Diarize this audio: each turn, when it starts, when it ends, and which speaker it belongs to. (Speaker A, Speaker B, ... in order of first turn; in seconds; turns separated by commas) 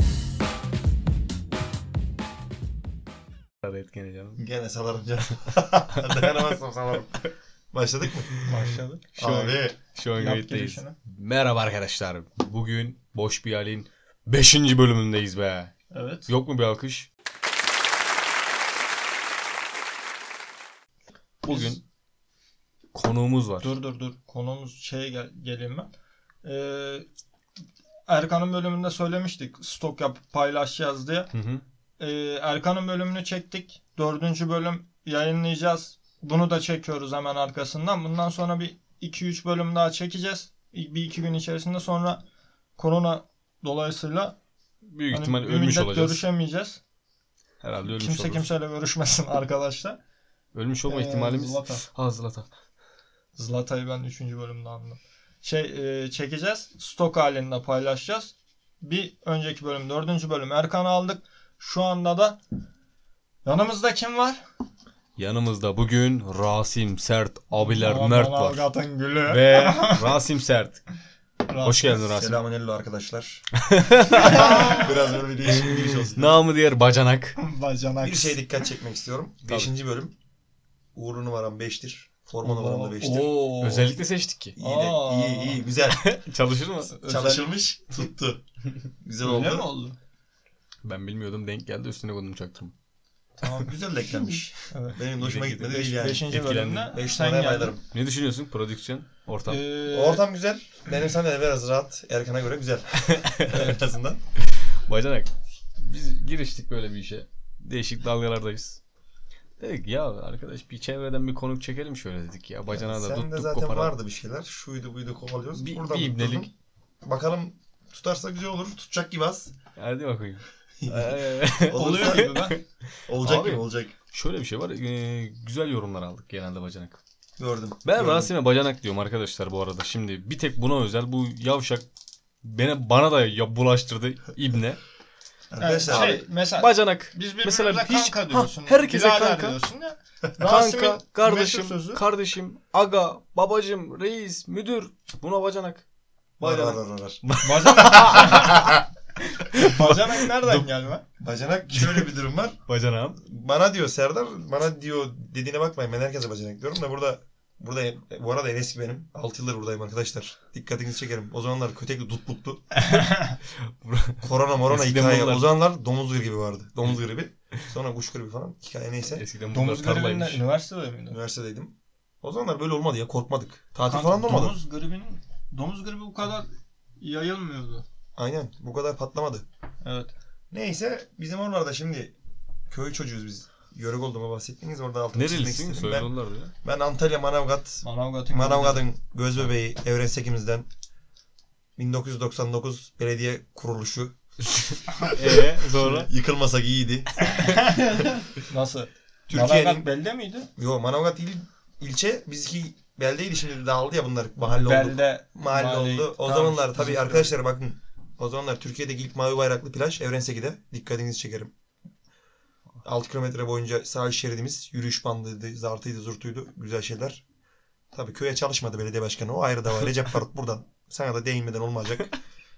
Speaker A: 3.6-4.4, Speaker B: 4.4-8.3, Speaker C: 8.4-9.0, Speaker A: 9.1-15.7, Speaker B: 9.2-9.8, Speaker C: 10.1-10.9, Speaker C: 15.9-16.3, Speaker A: 16.3-17.1, Speaker A: 21.4-21.8, Speaker C: 21.5-21.8, Speaker A: 22.9-23.7, Speaker C: 23.6-25.9, Speaker C: 26.4-27.1, Speaker C: 28.1-31.3, Speaker A: 31.3-31.6, Speaker C: 32.0-42.2, Speaker C: 42.8-44.4, Speaker A: 44.9-46.2, Speaker C: 45.1-46.8, Speaker A: 47.6-48.5, Speaker C: 47.9-50.0, Speaker A: 50.5-52.5, Speaker C: 50.9-51.8, Speaker C: 53.4-62.4, Speaker C: 63.4-64.4, Speaker A: 65.2-68.6, Speaker C: 67.6-70.2, Speaker A: 69.2-70.8, Speaker C: 71.5-71.9, Speaker A: 71.6-72.4, Speaker B: 72.1-73.4, Speaker A: 73.6-74.6, Speaker B: 74.1-76.4, Speaker C: 74.2-74.9, Speaker A: 75.5-77.4, Speaker C: 77.4-78.4, Speaker B: 78.0-80.1, Speaker B: 80.9-83.5, Speaker C: 82.4-84.0, Speaker A: 83.6-84.6, Speaker B: 84.5-86.1, Speaker C: 84.6-85.6, Speaker A: 85.9-86.9, Speaker C: 87.0-87.5, Speaker B: 87.0-88.4, Speaker B: 89.0-89.7, Speaker C: 89.2-90.0, Speaker A: 90.8-92.7, Speaker C: 93.4-93.7, Speaker B: 93.5-96.3, Speaker C: 94.7-95.0, Speaker A: 95.2-97.0, Speaker C: 95.7-97.7, Speaker B: 96.9-97.8, Speaker A: 97.9-99.6, Speaker C: 99.5-100.2, Speaker B: 99.9-104.2, Speaker A: 103.1-103.7, Speaker A: 104.5-108.8, Speaker A: 109.6-113.9, Speaker B: 112.7-116.5, Speaker A: 115.5-116.5, Speaker B: 117.0-119.5, Speaker A: 119.8-122.6, Speaker B: 120.8-122.3, Speaker C: 121.7-122.6, Speaker B: 123.1-123.9, Speaker A: 123.1-127.0, Speaker B: 127.4-128.3, Speaker A: 127.8-131.8, Speaker A: 132.4-134.8, Speaker C: 135.5-142.0, Speaker B: 135.6-136.2, Speaker A: 135.9-139.6, Speaker A: 140.4-145.8, Speaker A: 146.4-150.7, Speaker B: 146.4-148.4, Speaker C: 147.4-148.7, Speaker C: 149.5-151.0, Speaker B: 151.2-152.6, Speaker A: 152.7-153.2, Speaker B: 153.2-162.7, Speaker C: 162.8-163.3, Speaker A: 162.8-163.1, Speaker A: 163.8-165.5, Speaker B: 164.2-169.2, Speaker A: 169.1-170.4, Speaker C: 169.5-171.2, Speaker B: 171.1-174.6, Speaker C: 173.8-177.8, Speaker B: 178.2-179.4, Speaker C: 179.8-180.1, Speaker B: 180.5-182.1, Speaker B: 182.7-186.1, Speaker A: 185.1-186.5, Speaker B: 186.6-190.7, Speaker C: 187.8-188.8, Speaker B: 191.8-194.1, Speaker A: 195.1-196.1, Speaker B: 195.8-197.3, Speaker C: 197.3-200.5, Speaker B: 199.3-199.9, Speaker B: 200.6-211.5, Speaker C: 204.4-207.3, Speaker B: 212.8-217.2, Speaker B: 217.9-222.1